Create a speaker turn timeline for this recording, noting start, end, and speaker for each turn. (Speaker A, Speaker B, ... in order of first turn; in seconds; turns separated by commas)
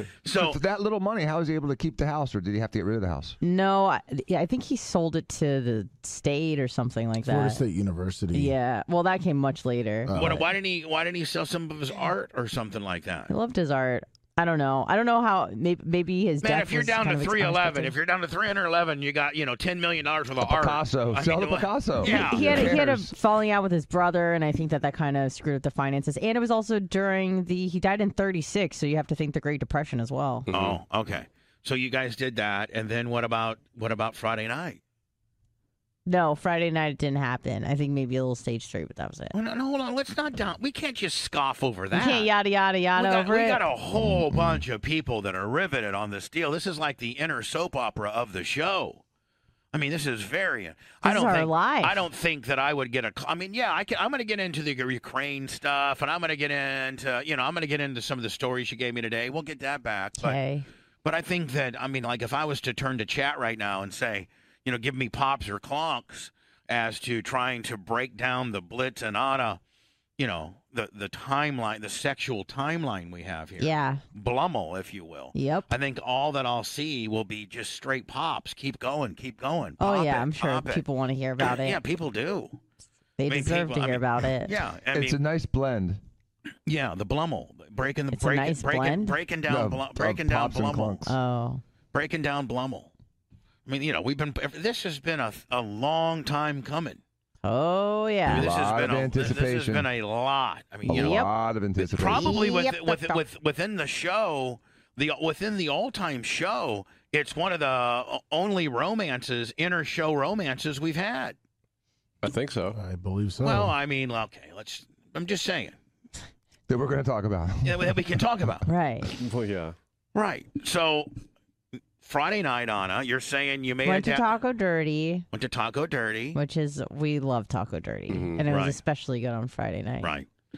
Speaker A: 0.2-0.6, Speaker B: 0.3-3.4, Speaker C: 3.4-7.6, Speaker D: 7.2-8.5, Speaker C: 8.3-10.3, Speaker D: 10.1-10.5, Speaker A: 10.2-13.3, Speaker C: 13.3-18.0, Speaker A: 16.4-22.8, Speaker B: 20.4-23.1, Speaker C: 22.0-30.5, Speaker E: 30.5-30.8, Speaker A: 30.5-34.8, Speaker C: 36.1-39.4, Speaker A: 39.3-42.3, Speaker C: 41.9-43.6, Speaker A: 43.0-49.0, Speaker A: 49.7-60.4, Speaker C: 51.0-52.0, Speaker C: 60.2-60.7, Speaker A: 61.0-69.6, Speaker A: 70.2-80.8, Speaker C: 73.6-74.0, Speaker C: 75.3-75.7, Speaker C: 79.8-81.8, Speaker A: 81.5-82.6, Speaker C: 83.2-84.6, Speaker A: 83.3-85.2, Speaker B: 84.9-86.0, Speaker A: 86.7-91.0, Speaker C: 88.1-89.2, Speaker B: 89.5-91.2, Speaker C: 91.1-91.6, Speaker A: 91.9-92.9, Speaker A: 93.7-97.0, Speaker C: 97.4-98.5, Speaker B: 98.3-99.9, Speaker A: 98.3-111.4, Speaker B: 100.8-102.4, Speaker C: 100.9-101.3, Speaker C: 102.0-103.2, Speaker E: 112.2-112.8, Speaker D: 112.8-113.8, Speaker A: 113.4-115.8, Speaker B: 116.7-118.5, Speaker A: 117.6-118.7, Speaker C: 118.7-119.1, Speaker E: 119.2-119.8, Speaker A: 120.2-121.1, Speaker A: 122.0-124.4, Speaker C: 123.8-125.3, Speaker A: 125.3-126.4, Speaker C: 126.3-130.1, Speaker E: 128.1-128.4, Speaker A: 128.5-128.8, Speaker A: 130.0-130.3